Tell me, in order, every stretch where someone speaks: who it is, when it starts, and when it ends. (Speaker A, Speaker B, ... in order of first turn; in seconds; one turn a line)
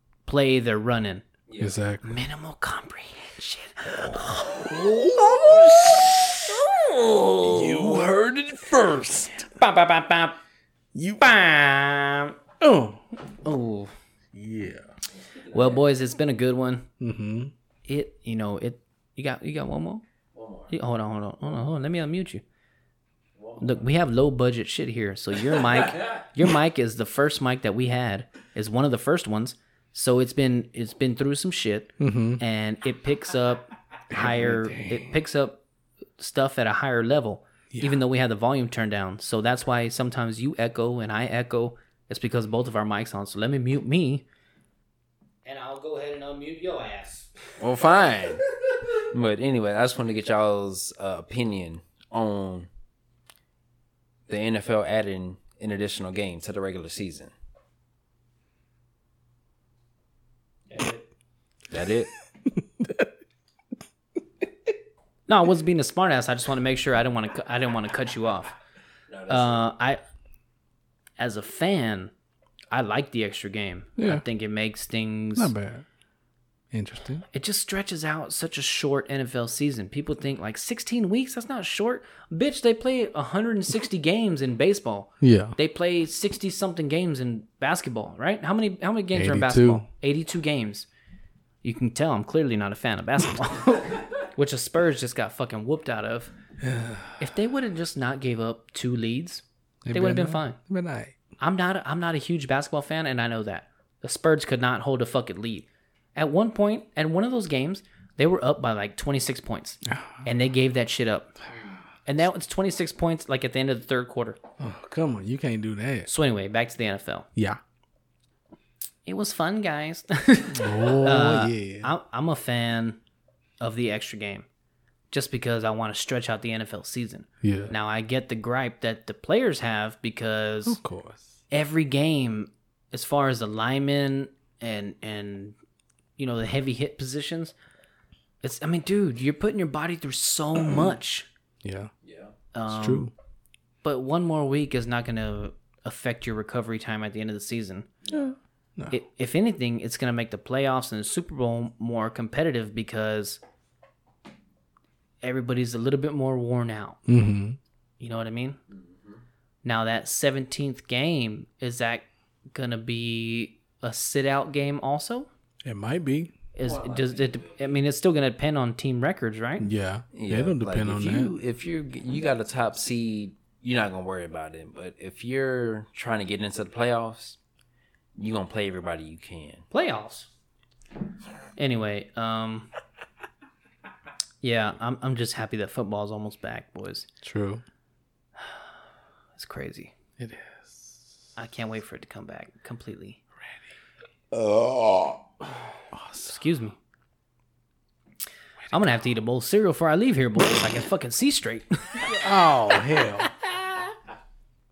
Speaker A: 0.2-1.2
Speaker B: 1.5-1.8
Speaker C: 1.6-2.1
Speaker A: 2.0-8.1
Speaker C: 4.0-6.1
Speaker C: 7.4-9.5
Speaker A: 9.4-10.4
Speaker C: 10.9-11.3
Speaker A: 11.2-12.3
Speaker C: 12.6-13.0
Speaker A: 13.4-13.9
Speaker C: 14.3-14.9
Speaker B: 15.2-15.8
Speaker A: 15.5-16.9
Speaker C: 17.0-17.5
Speaker A: 17.9-20.0
Speaker B: 20.3-20.7
Speaker A: 20.7-22.4
Speaker B: 23.4-23.8
Speaker A: 23.6-35.6
Speaker C: 32.0-32.4
Speaker C: 34.1-35.1
Speaker A: 36.2-44.2
Speaker C: 37.7-38.0
Speaker A: 45.4-47.6
Speaker B: 47.6-48.4
Speaker B: 49.0-52.7
Speaker B: 54.3-57.3
Speaker A: 60.7-61.0
Speaker B: 61.7-62.1
Speaker C: 62.6-63.1
Speaker A: 65.3-68.5
Speaker B: 69.1-69.7
Speaker A: 69.3-70.0
Speaker A: 71.2-72.1
Speaker A: 72.7-75.5
Speaker C: 74.0-74.2
Speaker C: 75.3-75.8
Speaker C: 76.7-77.2
Speaker A: 77.3-90.9
Speaker C: 85.2-85.5
Speaker C: 89.1-89.8
Speaker A: 91.6-96.3
Speaker C: 96.6-97.2
Speaker A: 97.2-100.6
Speaker C: 99.8-101.2
Speaker A: 101.4-111.3
Speaker C: 109.8-110.2
Speaker A: 112.0-114.4
Speaker C: 114.6-116.1
Speaker A: 116.1-117.3
Speaker A: 119.0-123.0
Speaker C: 120.5-121.9
Speaker A: 123.6-124.5
Speaker A: 125.1-130.8
Speaker C: 127.4-127.7
Speaker C: 130.7-131.3
Speaker A: 131.5-135.6
Speaker A: 136.2-137.5
Speaker A: 138.4-141.3
Speaker C: 141.6-141.9
Speaker B: 142.0-142.3
Speaker A: 142.5-143.1
Speaker C: 142.7-143.1
Speaker A: 143.8-147.9
Speaker C: 148.1-148.9
Speaker A: 148.9-153.4
Speaker A: 155.2-157.0
Speaker C: 157.1-157.6
Speaker A: 158.0-158.6
Speaker B: 158.7-159.2
Speaker A: 159.6-165.3
Speaker C: 165.6-166.3
Speaker A: 166.5-169.7
Speaker B: 166.6-167.6
Speaker C: 169.6-171.3
Speaker B: 170.1-177.4
Speaker B: 178.2-179.6
Speaker A: 179.7-180.3
Speaker A: 181.6-182.7
Speaker A: 184.4-187.1
Speaker C: 187.2-187.6
Speaker A: 189.3-189.9
Speaker C: 190.2-191.1
Speaker A: 191.4-193.2
Speaker C: 194.3-195.2
Speaker C: 195.9-196.4
Speaker A: 196.2-196.8
Speaker A: 198.7-202.2
Speaker C: 202.0-203.3
Speaker A: 202.9-203.8